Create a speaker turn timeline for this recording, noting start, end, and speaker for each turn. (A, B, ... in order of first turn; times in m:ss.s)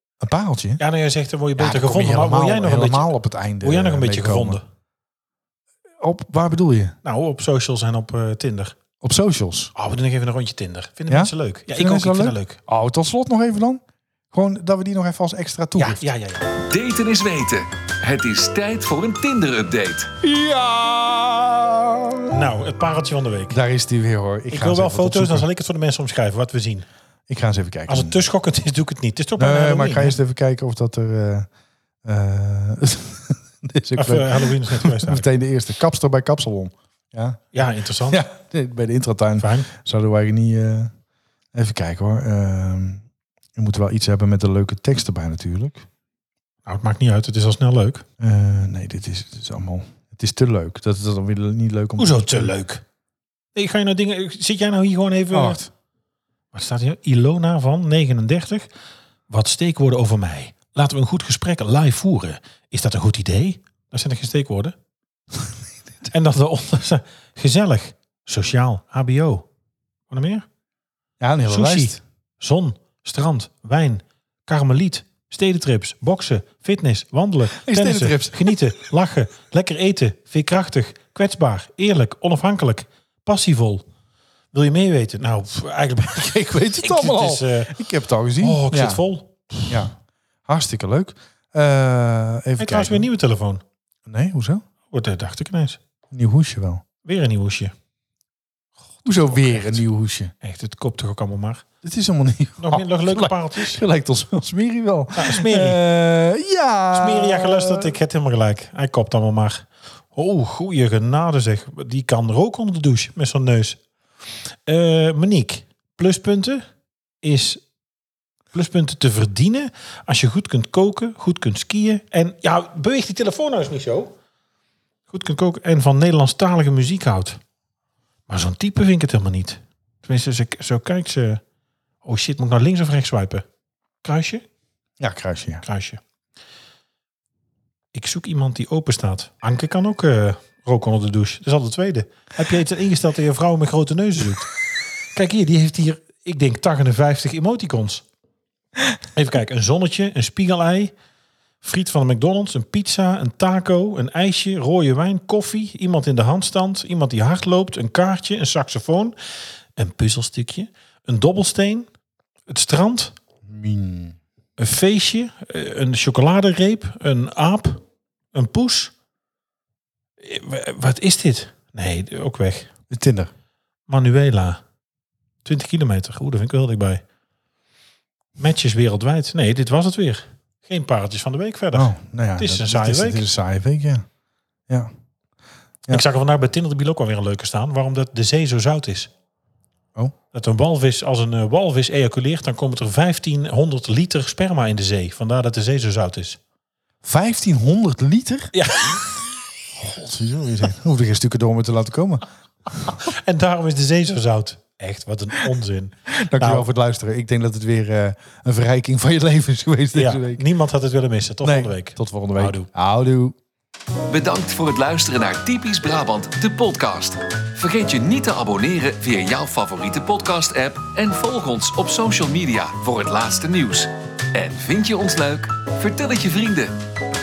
0:00.2-0:00.8 A
0:00.8-0:04.6 B
0:01.6-0:04.6 A
0:06.0-0:07.0 A
0:07.0-0:08.7 B
0:09.0-0:09.7 A
0:09.7-0:12.6 B
0:11.1-0:16.0 A
0:15.8-0:16.5 B
0:16.5-0:20.1 C
0:20.2-0:22.4 A
0:22.3-0:23.6 B
0:23.5-0:25.5 A
0:24.5-0:26.8 B
0:27.3-0:28.2 A
0:27.9-0:30.2 B
0:29.4-0:31.5 A
0:32.0-0:37.4 A
0:33.9-0:35.2 B
0:37.5-0:38.2 B
0:38.1-0:40.9 A
0:39.4-0:39.7 B
0:41.5-0:43.0 A
0:43.6-0:45.9 A
0:46.6-0:48.0 B
0:48.2-0:52.5 A
0:52.0-0:52.8 B
0:53.5-0:55.6 B
0:55.3-0:55.7 A
0:56.5-0:58.7 B
0:59.3-1:04.7 B
1:06.1-1:09.4 B
1:10.1-1:10.4 B
1:11.2-1:12.0 A
1:11.5-1:23.8 B
1:17.6-1:18.7 A
1:24.5-1:27.8 B
1:26.2-1:29.0 A
1:28.4-1:29.8 B
1:29.7-1:29.9 A
1:30.5-1:33.1 A
1:32.6-1:33.6 B
1:34.0-1:34.6 A
1:34.9-1:35.8 B
1:36.1-1:36.8 A
1:37.0-1:37.7 B
1:39.0-1:39.8 B
1:39.0-1:40.3 A
1:40.4-1:41.6 B
1:41.8-1:47.9 A
1:42.6-1:43.8 B
1:45.1-1:45.8 B
1:46.9-1:53.8 B
1:54.7-1:56.6 B
1:57.2-1:57.6 B
1:58.5-2:04.1 B
2:05.1-2:07.4 B
2:08.3-2:11.4 B
2:12.0-2:13.4 B
2:14.0-2:14.4 B
2:15.0-2:15.6 A
2:15.6-2:16.0 B
2:17.9-2:24.5 B
2:25.1-2:28.0 B
2:29.1-2:30.9 B
2:31.6-2:39.1 B
2:39.8-2:41.9 B
2:42.5-2:43.1 B
2:43.5-2:44.2 A
2:44.6-2:47.8 B
2:48.3-2:48.9 B
2:50.2-2:52.7 B
2:52.9-2:53.3 A
2:53.9-2:54.6 B
2:55.4-2:57.0 B
2:58.4-3:03.2 B
3:01.7-3:04.0 A
3:05.9-3:09.1 B
3:10.3-3:16.4 B
3:17.0-3:18.5 A
3:18.5-3:19.0 B
3:19.8-3:23.0 A
3:22.9-3:26.7 B
3:26.2-3:30.4 A
3:29.9-3:32.7 B
3:31.4-3:33.4 A
3:34.1-3:46.8 C